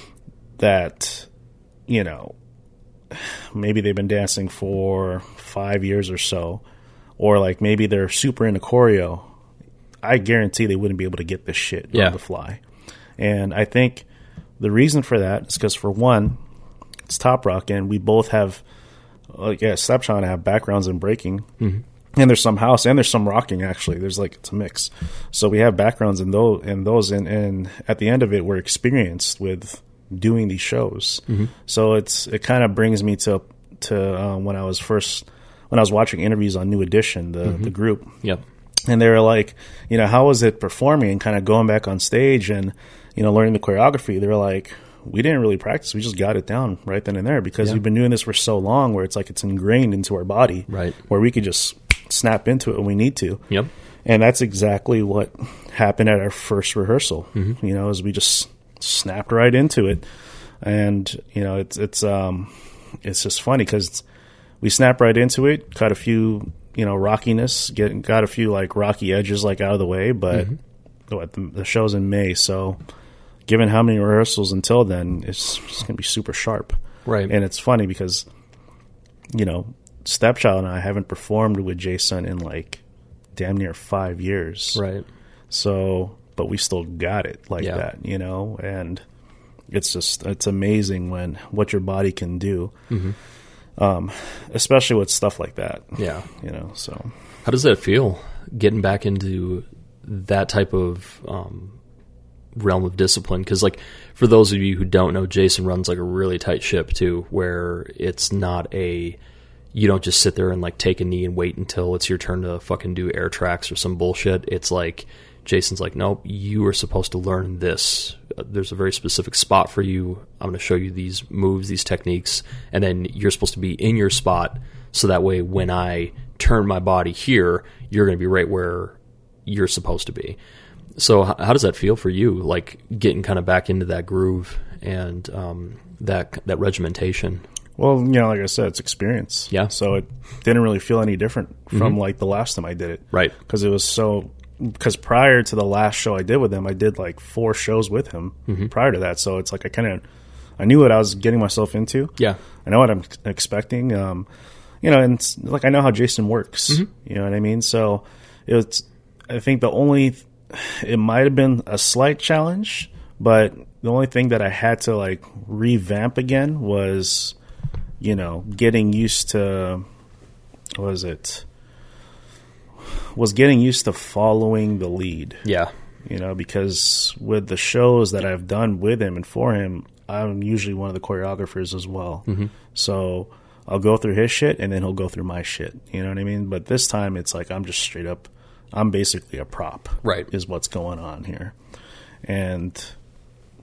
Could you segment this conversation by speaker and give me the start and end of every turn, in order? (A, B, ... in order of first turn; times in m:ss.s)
0:00.6-0:01.3 A
0:01.9-0:02.4 A
0:03.1-0:06.6 A
0:07.2-0:09.3 A
0:10.0-0:12.6 A
0:13.2-0:14.0 A
0:14.6-0:16.4 A
0:17.1-0:18.6 A
0:19.3-0:21.5 A
0:22.2-0:38.2 A
0:38.9-0:53.4 A
0:50.7-0:51.0 B
0:54.0-1:00.0 A
1:00.6-1:04.0 A
1:04.6-1:10.5 A
1:11.1-1:12.8 A
1:13.5-1:16.7 A
1:17.0-1:17.3 B
1:17.3-1:18.3 A
1:19.3-1:22.8 A
1:23.3-1:24.8 A
1:24.7-1:25.0 B
1:25.5-1:29.0 A
1:27.6-1:27.8 B
1:29.7-1:32.7 A
1:32.9-1:33.2 B
1:33.8-1:37.1 A
1:36.0-1:36.3 B
1:37.4-1:41.8 B
1:42.5-1:49.2 B
1:49.7-2:10.4 B
2:11.0-2:17.4 B
2:17.8-2:30.0 A
2:21.7-2:22.0 B
2:28.5-2:28.7 B
2:30.6-2:34.3 A
2:34.8-2:47.4 A
2:48.0-2:49.8 A
2:50.8-2:51.4 A
2:52.8-2:55.4 A
2:55.4-2:55.7 B
2:56.0-3:11.6 A
3:02.3-3:02.5 B
3:10.0-3:10.3 B
3:12.2-3:13.0 A